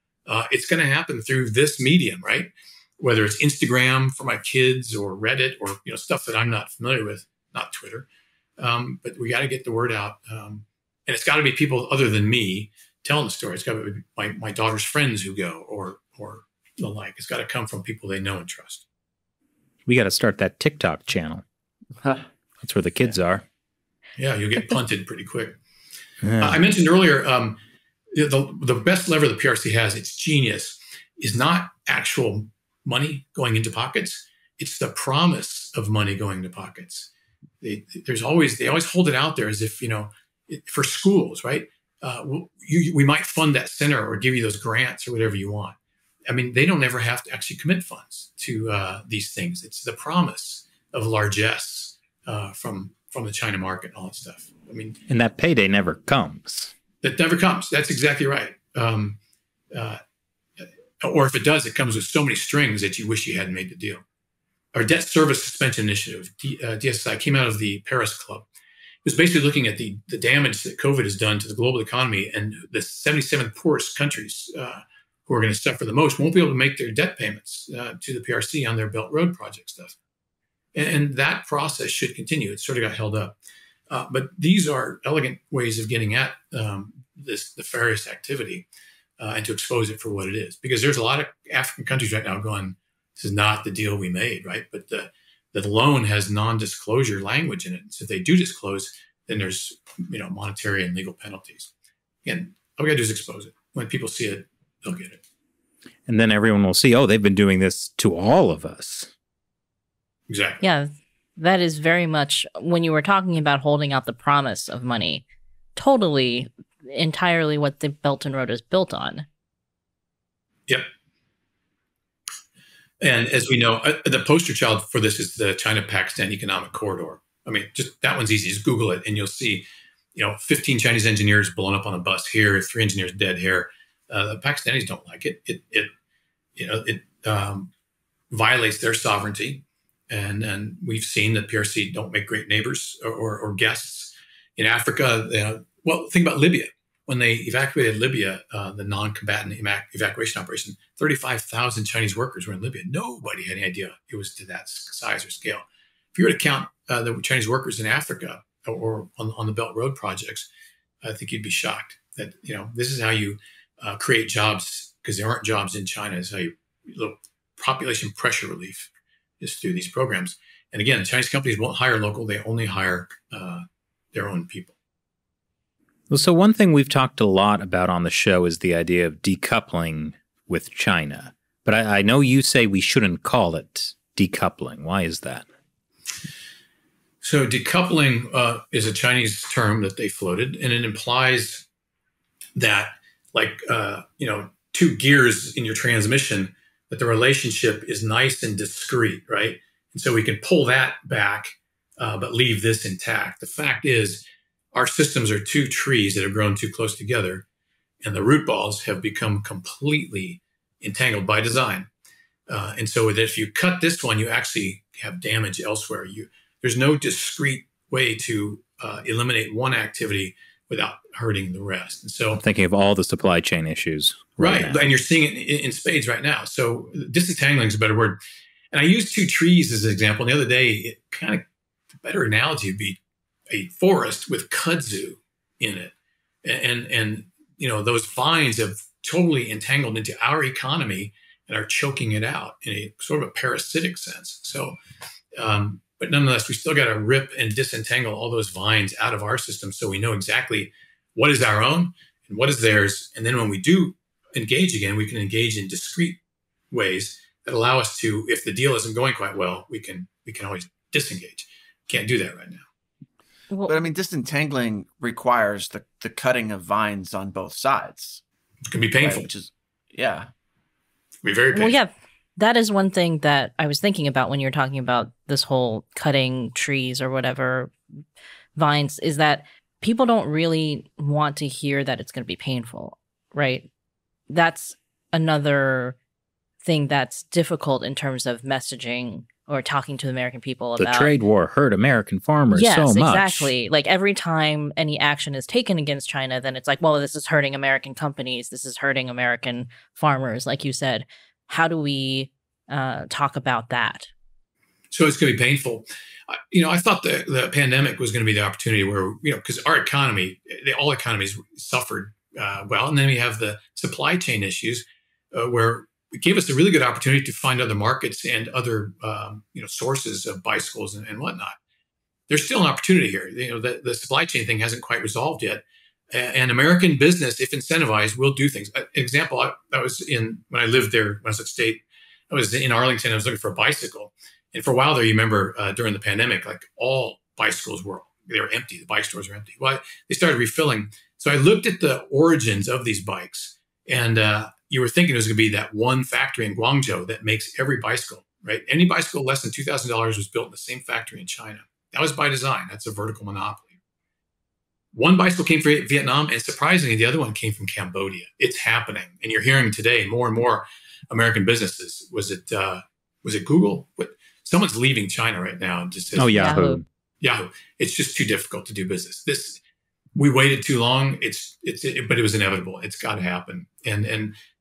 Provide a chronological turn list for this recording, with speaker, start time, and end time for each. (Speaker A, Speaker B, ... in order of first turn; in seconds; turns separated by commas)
Speaker A: 0.2-8.1, Speaker A: 8.6-18.8, Speaker B: 19.9-21.4, Speaker B: 22.6-23.4, Speaker A: 24.2-25.6, Speaker B: 26.2-26.6, Speaker A: 26.4-27.6, Speaker A: 28.1-37.1, Speaker A: 37.6-45.8, Speaker A: 46.3-55.0, Speaker B: 55.1-56.7, Speaker A: 57.0-59.2, Speaker A: 59.7-60.0, Speaker A: 61.0-64.0, Speaker A: 64.7-68.5, Speaker A: 69.0-80.0, Speaker A: 80.7-83.3, Speaker A: 83.9-88.7, Speaker A: 89.2-101.7, Speaker A: 102.2-105.2, Speaker B: 106.1-109.1, Speaker A: 110.3-110.6, Speaker C: 110.6-115.2, Speaker C: 115.8-119.3, Speaker A: 123.0-135.9, Speaker A: 136.6-137.7, Speaker A: 138.3-160.5, Speaker A: 161.0-174.8, Speaker B: 176.1-185.4, Speaker A: 187.2-191.7, Speaker A: 192.5-207.4, Speaker A: 208.0-211.9, Speaker A: 212.5-222.4, Speaker B: 222.3-224.9, Speaker A: 224.4-228.2, Speaker A: 228.7-231.4, Speaker A: 232.0-244.8, Speaker A: 245.3-256.2, Speaker A: 256.7-262.6, Speaker C: 263.5-263.8, Speaker D: 263.7-268.2, Speaker A: 268.7-269.3, Speaker D: 269.0-270.3, Speaker A: 271.2-271.8, Speaker C: 271.5-277.7, Speaker C: 278.6-283.7, Speaker C: 284.3-285.9, Speaker C: 286.6-291.1, Speaker B: 290.8-293.5, Speaker C: 292.5-304.1, Speaker A: 304.9-321.6, Speaker A: 322.3-353.7, Speaker A: 354.9-366.6, Speaker B: 366.1-366.8, Speaker C: 366.3-366.8, Speaker A: 367.2-369.6, Speaker A: 370.1-374.3